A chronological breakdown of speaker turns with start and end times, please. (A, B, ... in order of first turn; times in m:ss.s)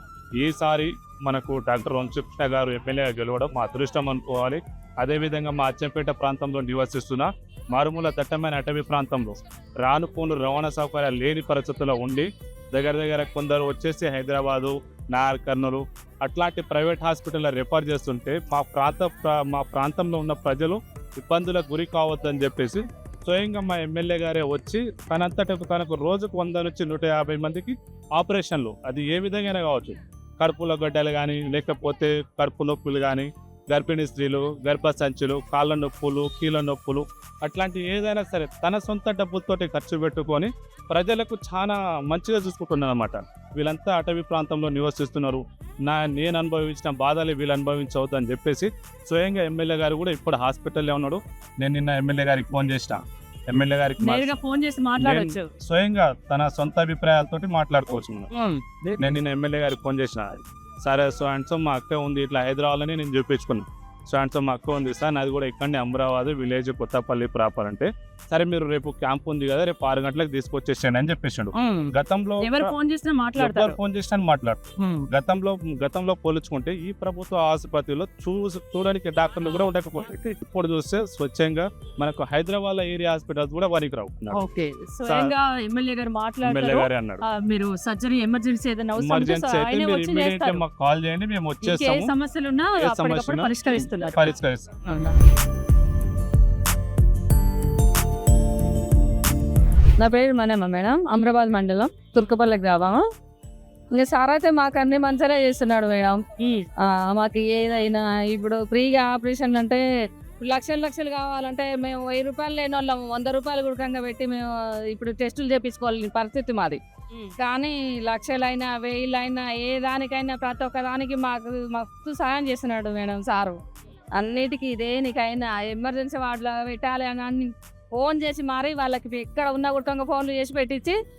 0:00.4-0:54.3 A
0:54.0-0:55.5 B
0:55.0-0:58.3 A
0:58.3-0:58.8 B
0:59.0-1:12.8 A
1:11.6-1:11.9 B
1:12.4-1:13.8 B
1:13.4-1:24.4 A
1:24.3-1:30.6 B
1:25.0-1:25.3 A
1:26.4-1:27.2 A
1:29.0-1:32.1 A
1:31.6-1:34.3 B
1:32.8-1:34.8 A
1:34.8-1:35.1 B
1:40.0-1:43.0 C
1:43.9-1:49.8 C
1:50.4-2:03.6 C
2:04.2-2:10.9 C